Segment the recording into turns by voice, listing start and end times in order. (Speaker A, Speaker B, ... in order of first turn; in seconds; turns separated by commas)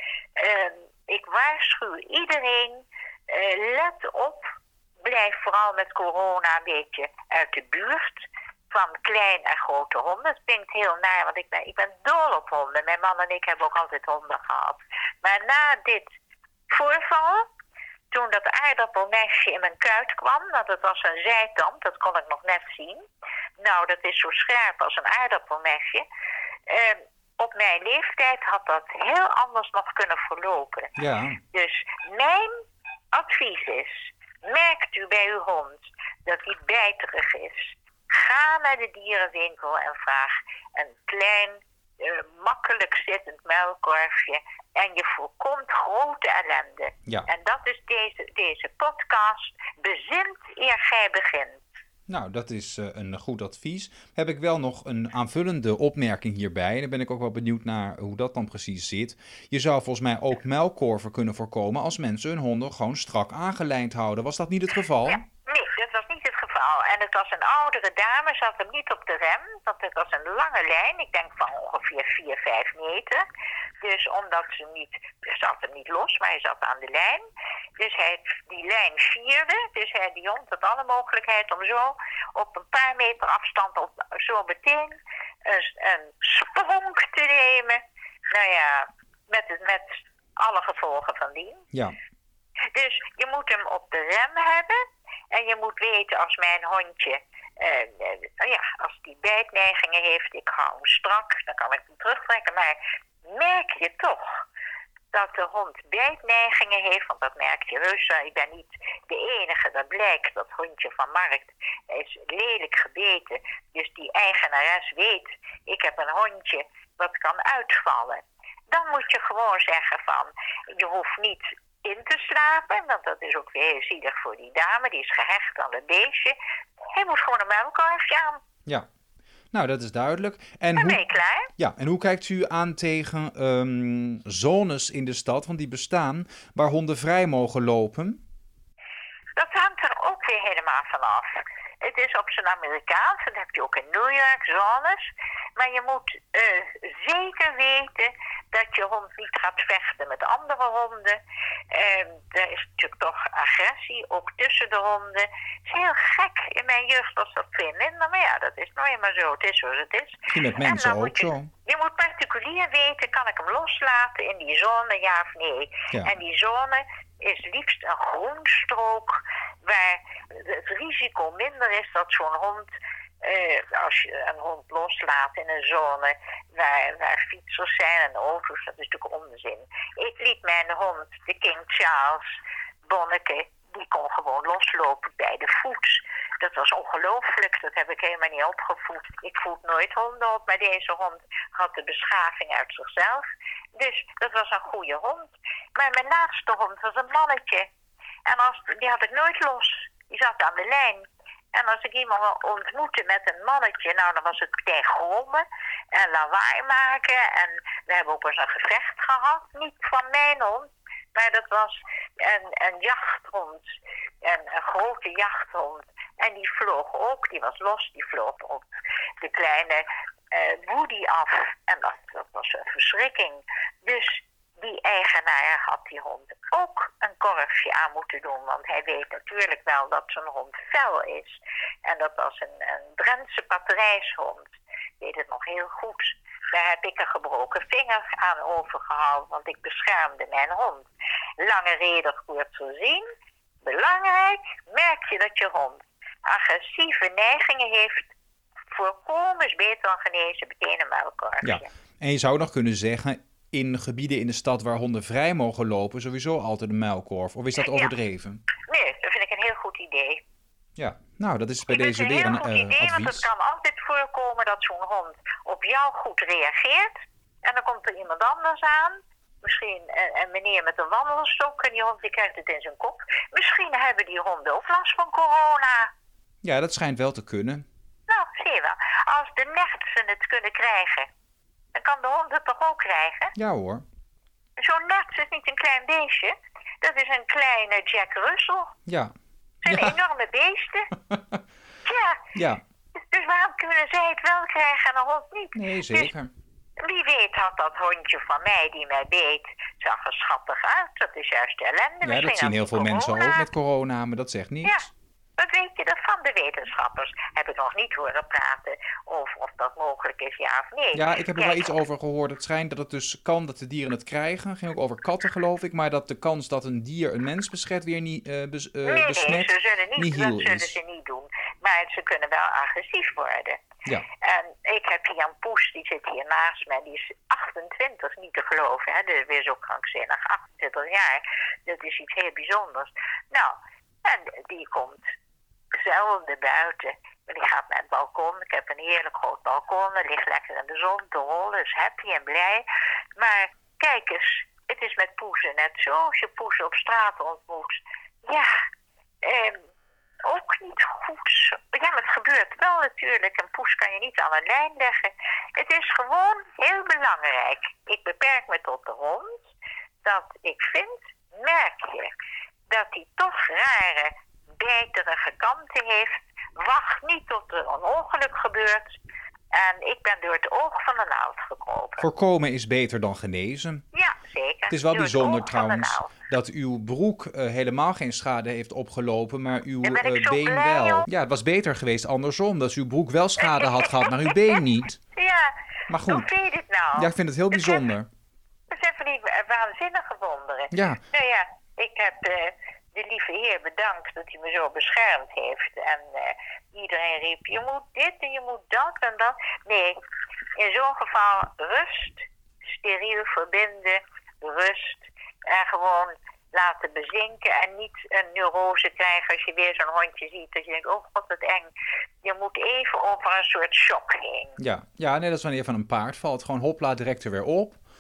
Speaker A: 0.4-4.4, Speaker A: 5.0-16.1, Speaker A: 16.7-17.5, Speaker A: 18.1-23.1, Speaker A: 23.6-26.1, Speaker A: 26.7-30.9, Speaker B: 31.0-31.4, Speaker A: 31.5-32.6, Speaker A: 33.1-51.6, Speaker B: 52.1-65.2, Speaker A: 65.1-73.2, Speaker A: 73.8-77.2, Speaker A: 77.8-91.7, Speaker A: 92.7-94.8, Speaker A: 95.3-104.4, Speaker A: 105.1-126.3, Speaker A: 126.9-128.4, Speaker B: 129.5-131.0, Speaker A: 130.8-131.5, Speaker B: 131.6-138.2, Speaker A: 139.3-151.2, Speaker A: 151.7-172.7, Speaker B: 160.3-161.5, Speaker A: 173.2-193.2, Speaker A: 193.7-197.7, Speaker A: 198.2-218.7, Speaker A: 219.2-240.8, Speaker A: 241.4-243.1, Speaker A: 243.6-248.1, Speaker A: 248.7-251.7, Speaker B: 251.4-258.4, Speaker A: 257.6-257.9, Speaker A: 258.7-260.2, Speaker B: 260.8-263.3, Speaker A: 261.7-266.9, Speaker A: 267.4-275.9, Speaker B: 276.4-277.6, Speaker A: 278.1-281.1, Speaker A: 281.7-283.3, Speaker B: 283.4-283.8, Speaker A: 284.6-288.7, Speaker B: 288.9-289.1, Speaker A: 289.6-290.9, Speaker B: 289.7-290.0, Speaker B: 291.1-291.4, Speaker A: 291.8-292.2, Speaker B: 292.3-292.6, Speaker A: 293.0-296.1, Speaker B: 295.5-296.3, Speaker A: 296.8-303.4, Speaker B: 302.0-304.9, Speaker A: 305.4-311.7, Speaker B: 310.9-320.8, Speaker A: 318.8-335.1, Speaker A: 335.7-348.5, Speaker A: 349.2-349.6, Speaker A: 350.2-359.5, Speaker A: 360.0-362.1, Speaker A: 362.7-369.0, Speaker A: 369.5-372.1, Speaker B: 372.0-373.8, Speaker A: 373.9-376.1, Speaker B: 374.7-385.0, Speaker A: 379.8-381.1, Speaker A: 383.4-384.6, Speaker A: 385.1-385.5, Speaker B: 385.9-386.3, Speaker A: 386.1-387.8, Speaker B: 386.9-388.1, Speaker A: 388.7-399.9, Speaker B: 390.7-391.0, Speaker A: 400.6-411.7, Speaker A: 412.2-414.6, Speaker B: 414.6-417.8